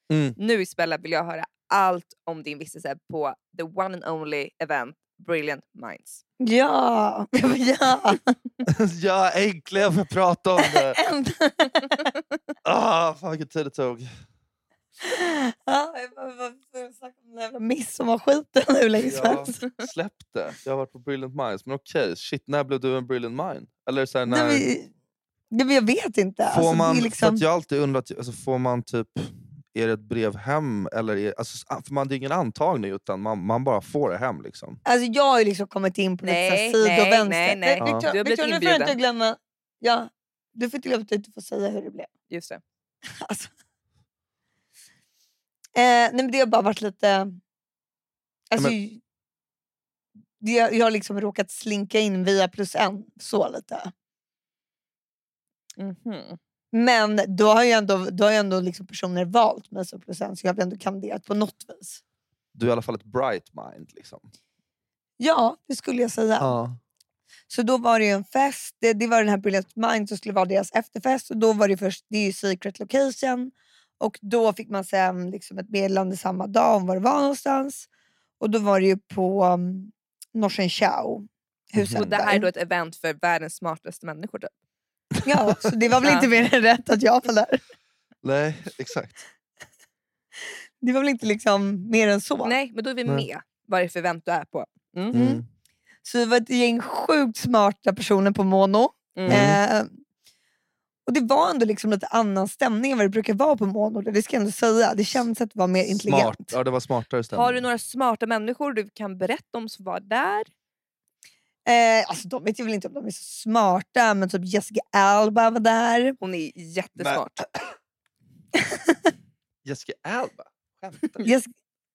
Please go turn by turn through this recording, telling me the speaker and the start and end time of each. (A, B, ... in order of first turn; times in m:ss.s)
0:00.1-0:00.4 A
0:00.4-0:06.2 B
0:06.4-0:08.4 C
0:08.6-0:11.0 A
0:10.6-0:12.1 C
0:12.6-0:14.1 A
0:15.0-0:19.6 C
0:19.0-0:24.7 A
0:24.3-0:24.9 C
0:25.5-0:27.4 C
0:26.5-0:34.8 A
0:34.8-0:42.1 C
0:36.2-0:39.0 B
0:37.8-0:38.1 A
0:42.3-0:42.6 B
0:43.2-0:43.5 C
0:45.7-0:47.4 C
0:48.5-0:49.0 C
0:50.4-0:53.9 C
0:55.8-0:56.4 B
0:56.7-1:02.0 C
1:02.5-1:04.2 A
1:05.2-1:06.5 C
1:06.4-1:06.8 A
1:07.5-1:17.9 C
1:18.4-1:22.5 C
1:21.8-1:22.1 A
1:22.0-1:24.5 B
1:25.1-1:25.7 A
1:25.2-1:27.6 C
1:26.0-1:26.3 B
1:28.2-1:29.2 A
1:30.8-1:32.5 C
1:32.4-1:35.1 B
1:35.1-1:35.4 C
1:35.1-1:35.4 A
1:36.0-1:39.9 C
1:39.2-1:39.4 B
1:39.3-1:39.6 A
1:41.1-1:46.5 C
1:46.0-1:47.6 A
1:47.3-1:50.5 B
1:51.6-1:56.2 C
1:56.2-1:57.4 B
1:58.6-1:59.0 C
1:59.6-2:01.3 A
2:01.2-2:01.5 C